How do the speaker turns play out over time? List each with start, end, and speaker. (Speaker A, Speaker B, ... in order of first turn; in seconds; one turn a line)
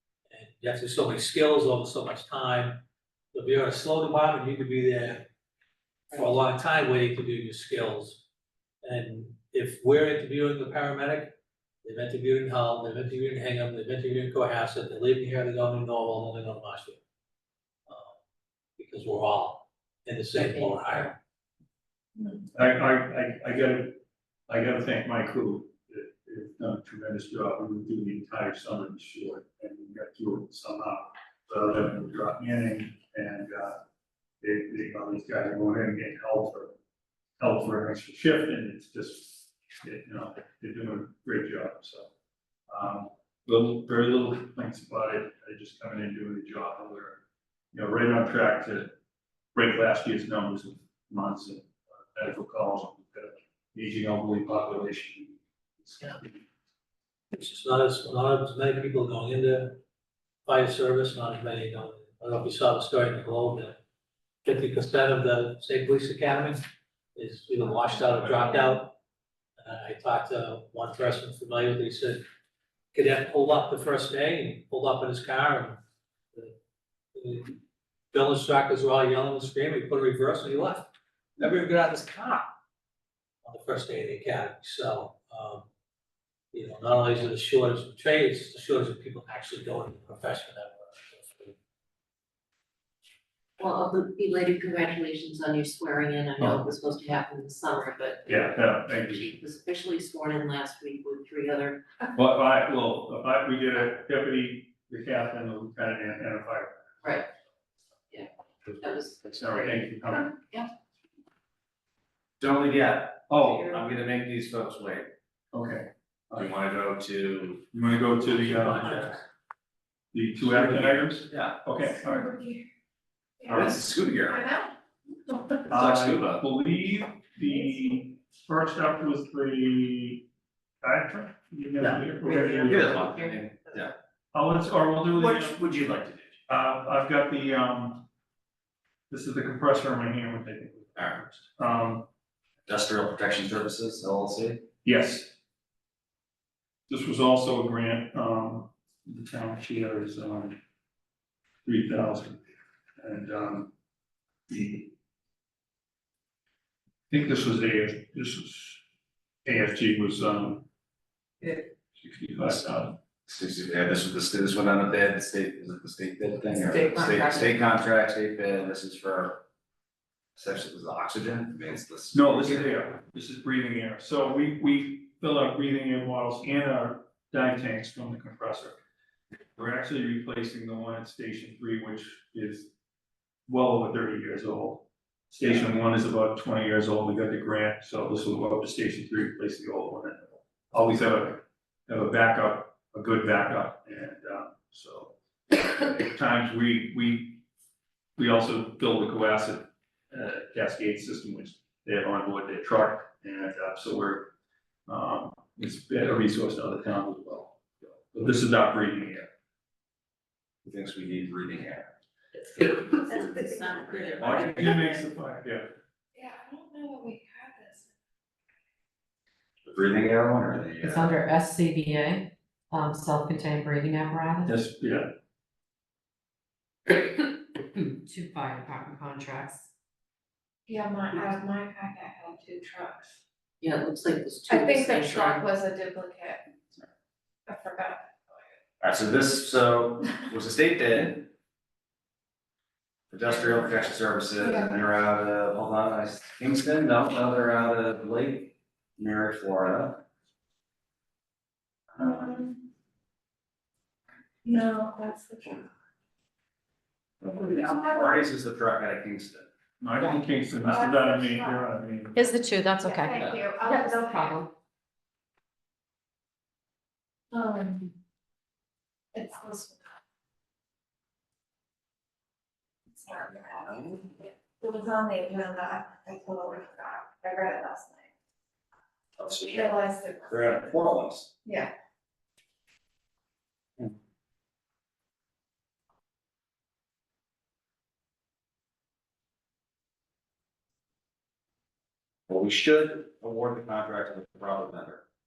Speaker A: 0.3-2.8
Speaker A: 3.3-5.2
Speaker A: 6.1-8.2
Speaker A: 8.8-17.0
Speaker A: 17.9-18.2
Speaker A: 18.8-21.2
Speaker B: 20.4-21.1
Speaker C: 22.5-33.8
Speaker C: 34.4-36.8
Speaker C: 37.4-42.1
Speaker C: 42.7-48.9
Speaker C: 49.5-56.4
Speaker A: 57.3-59.8
Speaker A: 60.5-63.8
Speaker A: 64.5-66.6
Speaker A: 67.2-69.0
Speaker A: 69.6-72.2
Speaker A: 72.9-75.8
Speaker A: 77.2-77.6
Speaker A: 78.1-80.9
Speaker A: 81.4-82.5
Speaker A: 83.4-85.7
Speaker A: 86.5-91.5
Speaker B: 93.6-101.8
Speaker C: 96.4-96.7
Speaker C: 98.3-99.3
Speaker C: 102.1-106.8
Speaker B: 107.0-107.3
Speaker B: 108.1-110.7
Speaker C: 109.3-110.4
Speaker D: 112.4-115.1
Speaker C: 113.3-113.7
Speaker C: 115.5-116.5
Speaker D: 116.4-117.6
Speaker C: 117.7-119.2
Speaker B: 118.6-119.1
Speaker C: 120.1-122.4
Speaker D: 120.5-121.6
Speaker E: 122.0-122.6
Speaker E: 123.4-124.7
Speaker D: 123.5-124.4
Speaker C: 125.7-130.2
Speaker D: 125.7-126.4
Speaker C: 130.8-133.1
Speaker D: 131.8-133.9
Speaker C: 134.3-135.6
Speaker D: 135.1-136.4
Speaker C: 136.5-138.1
Speaker C: 139.1-142.1
Speaker D: 141.0-141.2
Speaker D: 142.7-144.6
Speaker C: 144.8-145.3
Speaker C: 146.9-150.6
Speaker C: 151.7-152.4
Speaker C: 153.0-153.7
Speaker C: 154.5-154.9
Speaker C: 157.1-158.8
Speaker C: 159.4-160.7
Speaker C: 161.9-163.0
Speaker D: 163.3-169.4
Speaker F: 166.8-167.5
Speaker D: 170.4-172.6
Speaker C: 172.1-178.8
Speaker C: 179.6-182.7
Speaker C: 183.5-197.4
Speaker C: 198.2-204.3
Speaker C: 204.9-209.3
Speaker D: 210.6-211.9
Speaker B: 213.0-214.8
Speaker D: 213.1-214.6
Speaker C: 214.2-215.7
Speaker E: 216.2-217.9
Speaker D: 219.7-221.2
Speaker F: 220.8-224.5
Speaker C: 224.4-225.1
Speaker F: 226.9-229.7
Speaker E: 230.7-233.1
Speaker B: 233.6-235.5
Speaker E: 234.5-236.4
Speaker E: 237.5-238.5
Speaker D: 238.8-241.3
Speaker D: 243.1-250.0
Speaker E: 244.4-244.8
Speaker D: 252.0-252.3
Speaker E: 252.0-252.6
Speaker E: 254.4-255.7
Speaker D: 257.2-259.5
Speaker E: 257.6-258.1
Speaker C: 259.8-262.3
Speaker E: 260.6-261.7
Speaker F: 262.1-264.5
Speaker E: 262.8-264.5
Speaker D: 263.1-263.4
Speaker E: 267.3-267.9
Speaker E: 269.1-269.8
Speaker E: 272.9-278.1
Speaker D: 273.6-274.0
Speaker D: 279.2-281.3
Speaker E: 279.4-280.6
Speaker E: 281.4-281.7
Speaker D: 292.3-295.0